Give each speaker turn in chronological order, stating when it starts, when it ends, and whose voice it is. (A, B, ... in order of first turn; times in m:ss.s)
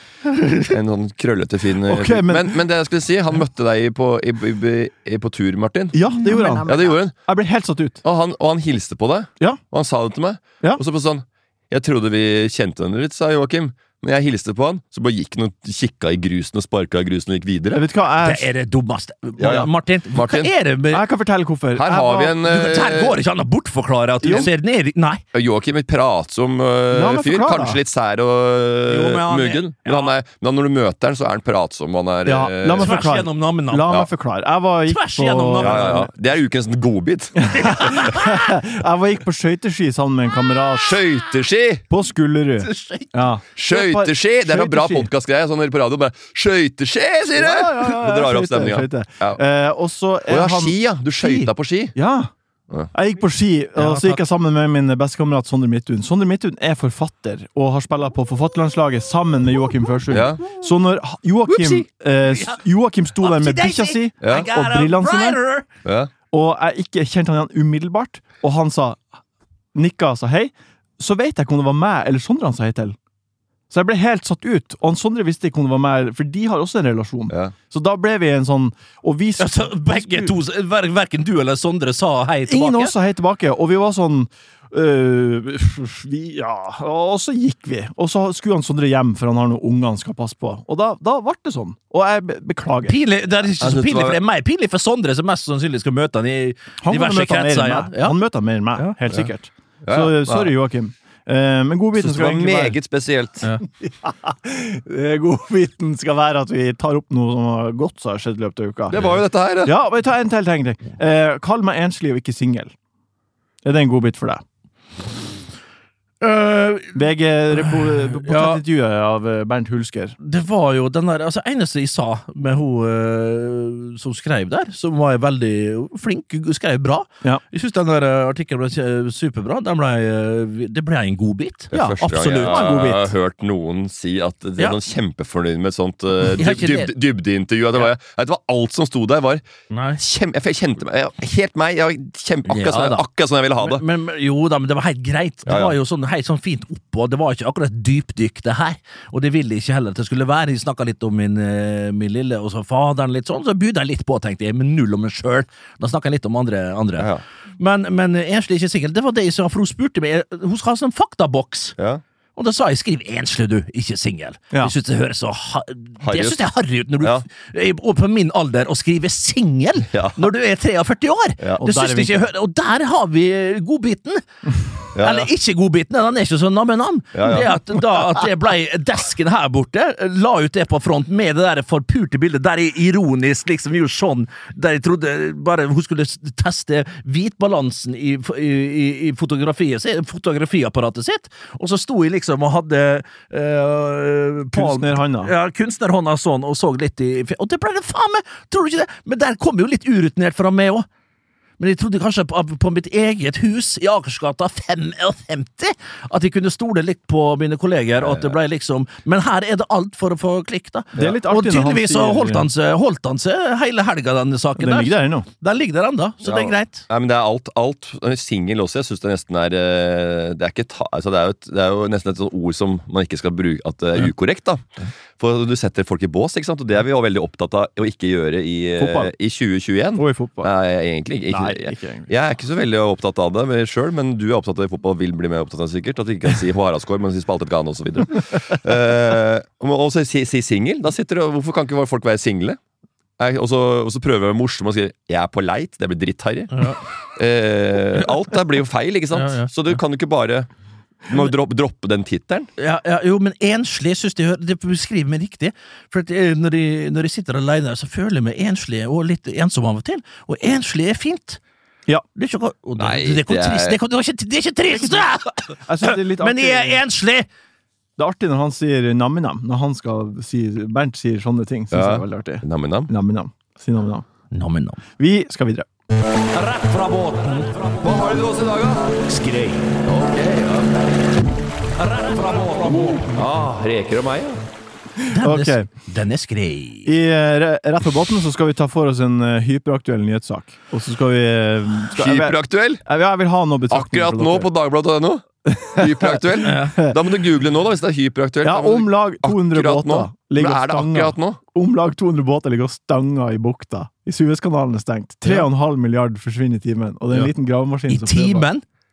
0:00.6-0:06.1 A
0:01.8-0:02.6 B
0:05.9-0:08.0 B
0:06.3-0:06.6 C
0:06.6-0:07.2 A
0:08.0-0:17.8 A
0:17.7-0:18.5 B
0:18.2-0:21.0 C
0:19.4-0:20.5 A
0:20.9-0:22.4 B
0:21.7-0:23.2 A
0:22.4-0:25.2 C
0:24.2-0:24.5 B
0:25.3-0:33.0 A
0:26.9-0:27.8 B
0:28.9-0:30.1 C
0:32.2-0:36.0 B
0:32.7-0:33.9 C
0:34.8-0:36.1 C
0:35.6-0:38.1 A
0:37.4-0:41.0 B
0:37.8-0:38.2 C
0:40.8-0:41.8 A
0:41.9-0:45.1 B
0:42.6-0:43.1 C
0:43.6-0:49.4 A
0:47.4-0:52.3 B
0:50.3-0:52.0 A
0:52.9-1:05.4 B
0:53.8-0:54.2 C
1:00.1-1:00.4 A
1:01.5-1:02.6 C
1:03.2-1:05.6 C
1:04.2-1:04.5 A
1:05.8-1:06.1 A
1:06.3-1:09.0 B
1:09.7-1:13.0 B
1:13.7-1:20.3 B
1:17.3-1:17.5 A
1:19.4-1:22.9 C
1:22.5-1:33.0 B
1:32.8-1:38.2 C
1:33.6-1:34.2 A
1:36.8-1:42.8 B
1:38.8-1:39.2 C
1:39.8-1:40.5 A
1:41.9-1:43.5 A
1:43.8-1:49.0 B
1:48.9-1:49.8 A
1:49.6-1:52.7 B
1:53.6-1:54.4 B
1:56.2-1:57.0 C
1:56.9-2:00.1 B
1:57.6-1:58.6 C
2:00.2-2:13.1 C
2:11.7-2:19.4 A
2:12.4-2:12.7 B
2:16.4-2:16.9 C
2:19.7-2:20.0 C
2:20.0-2:23.8 A
2:22.5-2:23.0 C
2:23.6-2:41.8 C
2:25.4-2:25.8 A
2:37.0-2:37.2 A
2:41.8-2:42.0 A
2:42.4-2:54.2 C
2:46.0-2:46.4 A
2:47.0-2:47.2 A
2:49.9-2:50.3 A
2:51.6-2:52.2 B
2:54.9-3:20.9 C
2:54.9-2:55.3 A
2:57.1-2:58.1 A
3:14.5-3:15.3 B
3:21.6-3:36.8 C
3:28.0-3:28.3 A
3:31.0-3:32.5 B
3:34.6-3:35.3 B
3:36.2-3:44.6 A
3:45.2-4:02.6 A
3:48.8-3:49.1 B
3:50.0-3:50.5 B
3:51.3-3:52.1 B
4:03.2-4:10.5 A
4:06.5-4:06.8 C
4:09.1-4:09.5 C
4:11.1-4:12.5 A
4:12.6-4:21.4 C
4:22.1-4:27.3 C
4:22.8-4:23.8 A
4:25.6-4:26.8 B
4:28.0-4:34.0 B
4:31.7-4:32.9 A
4:34.3-4:34.8 C
4:35.0-4:35.7 B
4:36.3-4:37.9 C
4:37.8-4:39.0 A
4:39.0-4:39.7 C
4:39.8-4:41.0 A
4:41.8-4:43.1 C
4:42.7-4:44.4 A
4:45.0-4:45.7 B
4:45.1-4:46.9 C
4:46.8-4:54.5 B
4:51.9-4:52.8 A
4:53.7-5:01.4 A
4:55.5-4:57.0 B
4:56.4-4:56.8 C
4:58.4-5:08.5 B
5:07.9-5:08.6 C